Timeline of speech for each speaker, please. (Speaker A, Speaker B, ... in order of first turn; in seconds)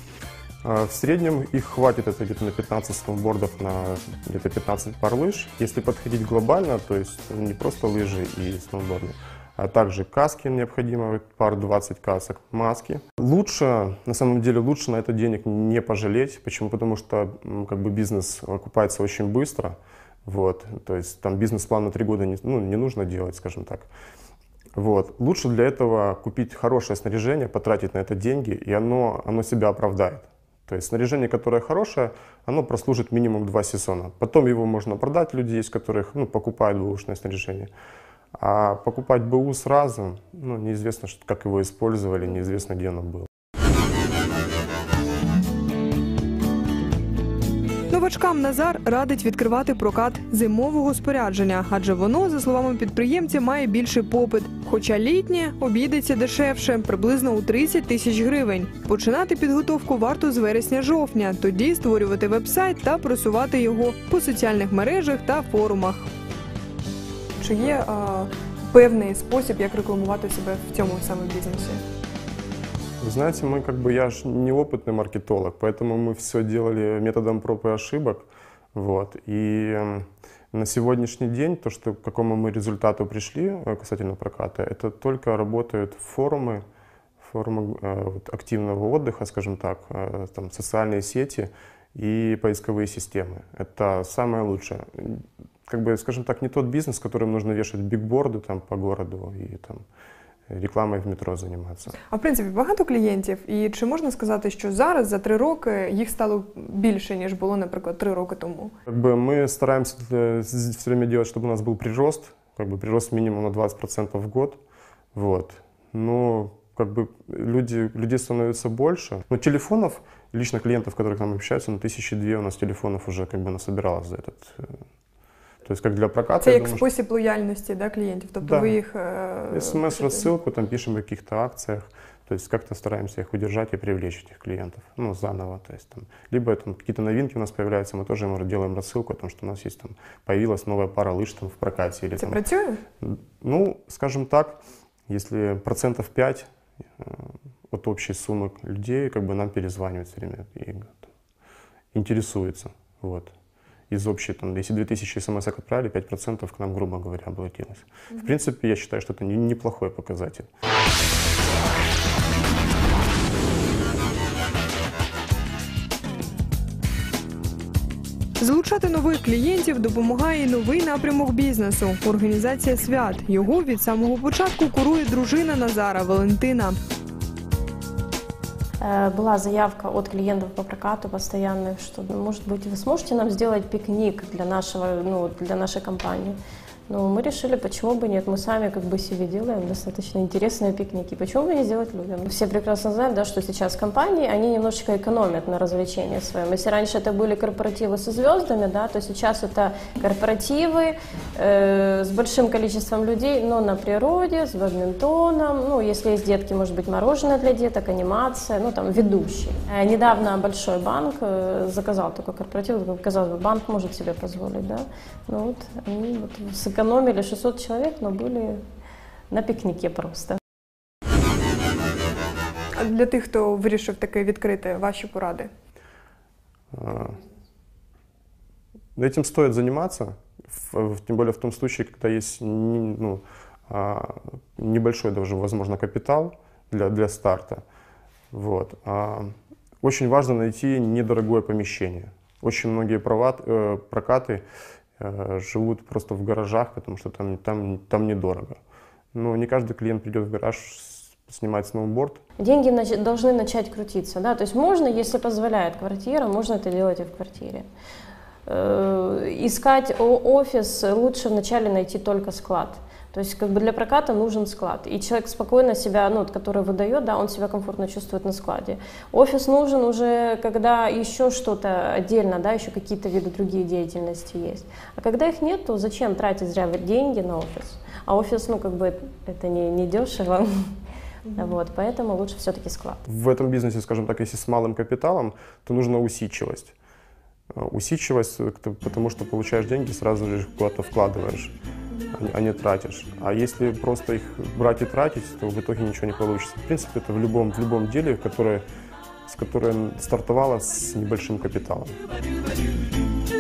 Speaker A: 0.6-23.9, 24.8-37.7, 38.4-43.3, 73.0-86.6, 87.2-99.8, 100.5-102.0, 108.9-114.6, 115.1-124.8, 125.6-126.8, 128.4-128.8, 129.5-142.4, 143.0-146.5, 147.0-151.1, 151.9-153.3, 153.9-160.5, 226.7-227.2, 229.0-237.6, 238.3-244.4, 245.0-248.6, 249.1-252.2, 283.1-286.8, 287.5-291.5, 292.1-298.6, 299.3-302.0
Speaker B: 47.9-66.1, 67.4-71.8, 102.1-108.7, 126.4-130.1, 142.2-142.8, 168.4-176.8, 222.8-225.5
Speaker C: 178.8-186.4, 186.9-218.6, 219.3-220.4, 252.4-257.6, 258.5-280.5, 281.4-283.0